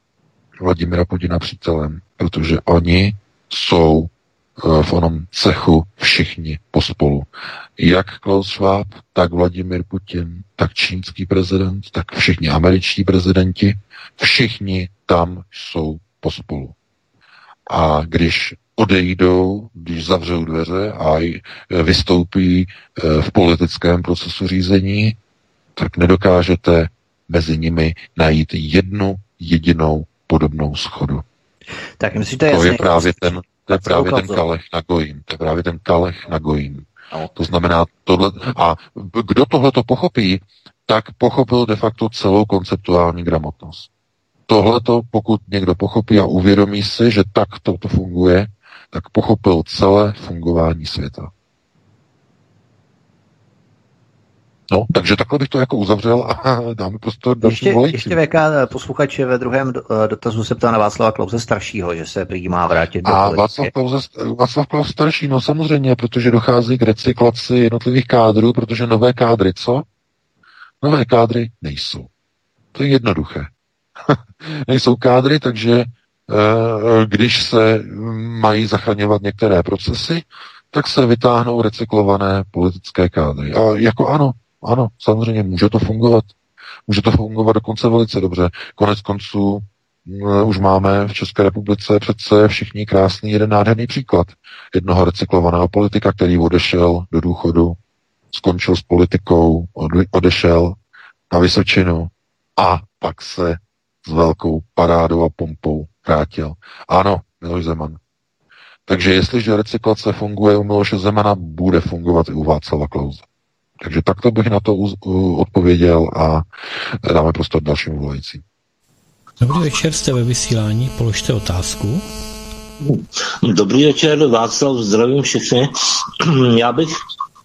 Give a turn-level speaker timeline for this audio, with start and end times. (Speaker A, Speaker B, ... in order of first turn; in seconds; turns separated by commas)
Speaker A: 0.6-16.8, Speaker A: 17.7-25.2, Speaker A: 25.8-31.2, Speaker B: 32.0-34.4, Speaker A: 32.5-43.9, Speaker A: 44.5-51.3, Speaker A: 54.7-58.2, Speaker B: 57.4-63.7, Speaker A: 63.0-69.8, Speaker A: 70.8-72.1, Speaker A: 72.8-73.5, Speaker A: 74.1-86.3, Speaker A: 86.9-97.8, Speaker A: 98.3-100.8, Speaker A: 101.3-108.0, Speaker A: 108.9-113.2, Speaker A: 113.8-116.5, Speaker A: 117.0-118.4, Speaker C: 119.4-122.0, Speaker D: 122.8-126.9